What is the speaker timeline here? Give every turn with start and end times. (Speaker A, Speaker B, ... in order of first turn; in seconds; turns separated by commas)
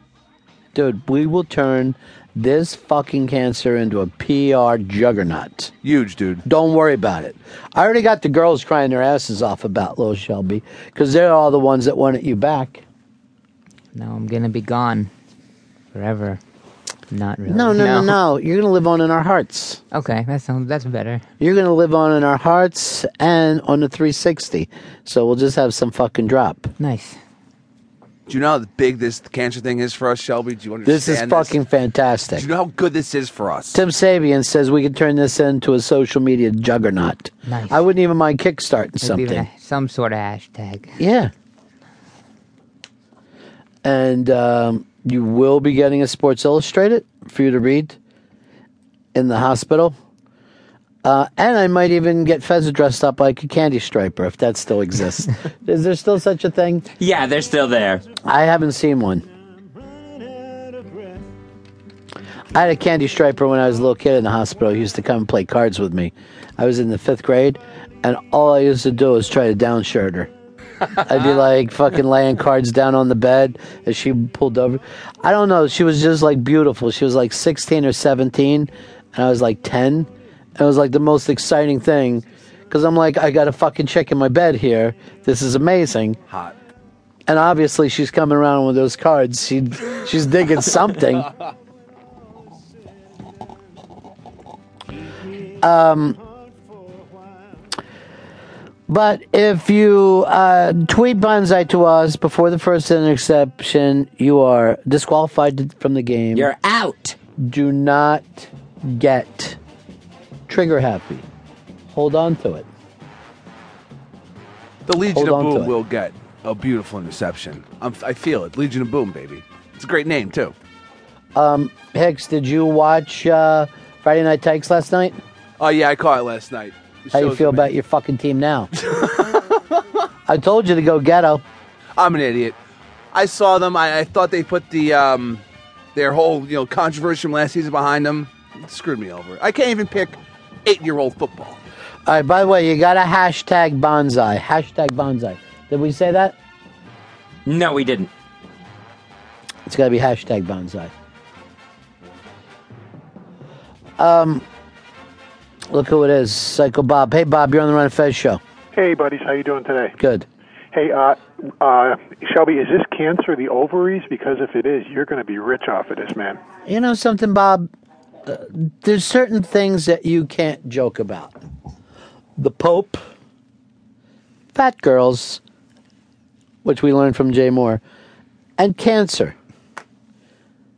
Speaker A: 0.7-5.7, Speaker B: 5.8-6.4, Speaker A: 6.5-12.8, Speaker C: 13.9-15.1, Speaker C: 15.9-16.4, Speaker C: 17.1-18.1, Speaker A: 17.5-19.8, Speaker C: 19.9-21.2, Speaker A: 21.4-26.7, Speaker C: 26.8-27.2, Speaker B: 28.3-31.5, Speaker A: 30.9-32.5, Speaker B: 32.4-33.7, Speaker A: 33.7-39.5, Speaker C: 37.5-37.8, Speaker C: 39.0-41.0, Speaker A: 41.0-41.3, Speaker A: 43.8-48.0, Speaker A: 49.1-50.0, Speaker A: 51.0-56.9, Speaker D: 57.0-58.0, Speaker A: 58.2-59.2, Speaker A: 62.5-70.3, Speaker A: 70.9-86.2, Speaker A: 87.3-91.3, Speaker A: 95.5-96.2, Speaker A: 98.9-106.5, Speaker D: 106.3-107.2, Speaker A: 107.4-109.6, Speaker A: 110.5-111.3, Speaker A: 111.9-112.7, Speaker B: 114.9-120.5, Speaker A: 115.1-115.7, Speaker A: 121.3-125.2, Speaker B: 125.6-127.5, Speaker A: 127.1-128.8, Speaker A: 130.3-131.4, Speaker B: 132.0-132.6, Speaker B: 133.1-135.4, Speaker B: 135.9-141.6, Speaker A: 142.1-146.4, Speaker D: 147.5-148.1, Speaker A: 149.7-150.9, Speaker A: 154.0-154.5, Speaker A: 155.7-158.4, Speaker E: 158.7-160.0, Speaker A: 160.0-160.3, Speaker E: 160.7-166.4, Speaker A: 166.7-167.7, Speaker A: 168.3-171.3, Speaker A: 172.4-173.0, Speaker A: 174.5-175.4, Speaker A: 176.6-177.8, Speaker A: 178.6-179.4